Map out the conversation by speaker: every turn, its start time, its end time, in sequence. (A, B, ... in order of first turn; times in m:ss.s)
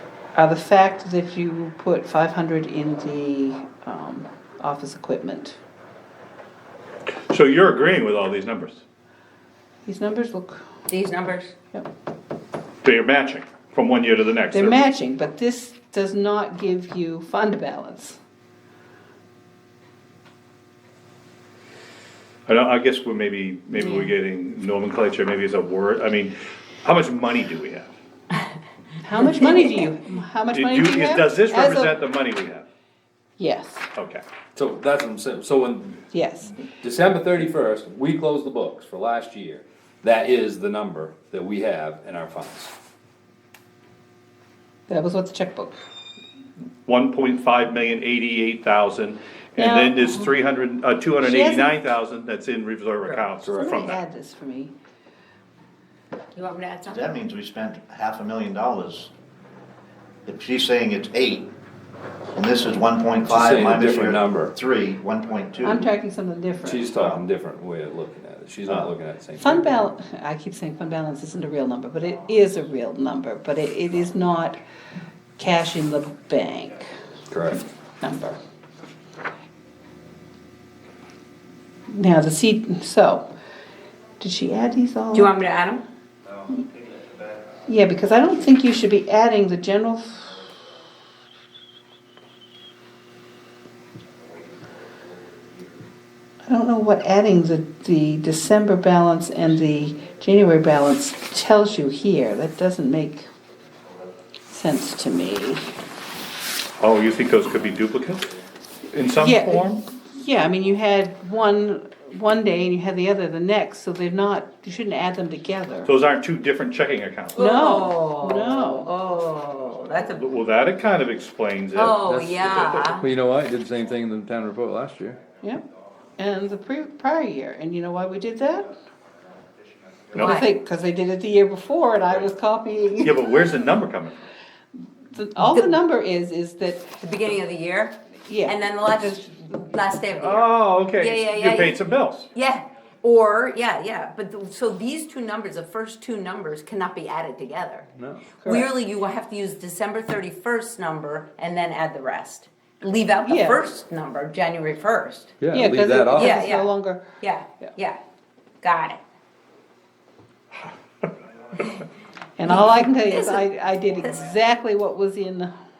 0:00.4-0:05.6 A
0:07.3-0:08.8 B
0:09.8-0:10.7 A
0:10.9-0:11.5 C
0:12.8-0:14.8 B
0:14.5-0:18.2 A
0:22.5-0:27.9 B
0:23.8-0:24.1 C
0:29.0-0:32.0 A
0:30.5-0:32.6 B
0:33.4-0:33.9 A
0:33.9-0:34.2 B
0:34.6-0:36.0 D
0:36.1-0:36.6 A
0:36.8-0:42.7 D
0:44.9-0:45.7 A
0:46.9-0:54.0 B
0:49.6-0:50.3 A
0:51.2-0:51.8 A
0:53.4-0:53.7 D
0:53.5-0:54.7 A
0:56.4-0:57.1 C
0:56.9-0:59.1 E
1:00.3-1:01.5 E
1:02.3-1:05.8 E
1:03.3-1:04.6 D
1:05.6-1:06.9 A
1:06.6-1:09.8 D
1:06.9-1:07.2 E
1:08.7-1:08.9 E
1:09.4-1:14.6 A
1:15.4-1:16.8 A
1:17.3-1:17.6 D
1:18.0-1:18.4 A
1:21.9-1:23.3 A
1:24.2-1:25.3 A
1:25.1-1:25.8 C
1:27.7-1:30.4 A
1:36.5-1:43.3 A
1:44.5-1:45.7 A
1:46.8-1:48.3 B
1:48.9-1:49.8 B
1:49.2-1:55.9 A
1:55.9-1:57.5 B
1:57.3-2:00.3 C
1:57.4-1:58.9 A
2:00.1-2:03.0 B
2:01.8-2:03.0 C
2:03.0-2:05.2 D
2:06.2-2:08.7 A
2:10.1-2:13.5 A
2:10.2-2:10.5 C
2:13.0-2:14.2 B
2:15.1-2:16.9 A
2:15.5-2:15.7 C
2:17.0-2:21.8 C
2:18.3-2:19.5 A
2:20.2-2:22.3 B
2:22.3-2:27.9 C
2:28.0-2:28.3 D
2:28.4-2:28.7 A
2:28.4-2:35.4 C
2:33.2-2:33.6 A
2:35.4-2:36.4 D
2:35.5-2:37.1 A
2:36.2-2:38.0 C
2:38.6-2:39.0 C
2:42.4-2:45.5 A
2:42.5-2:43.4 C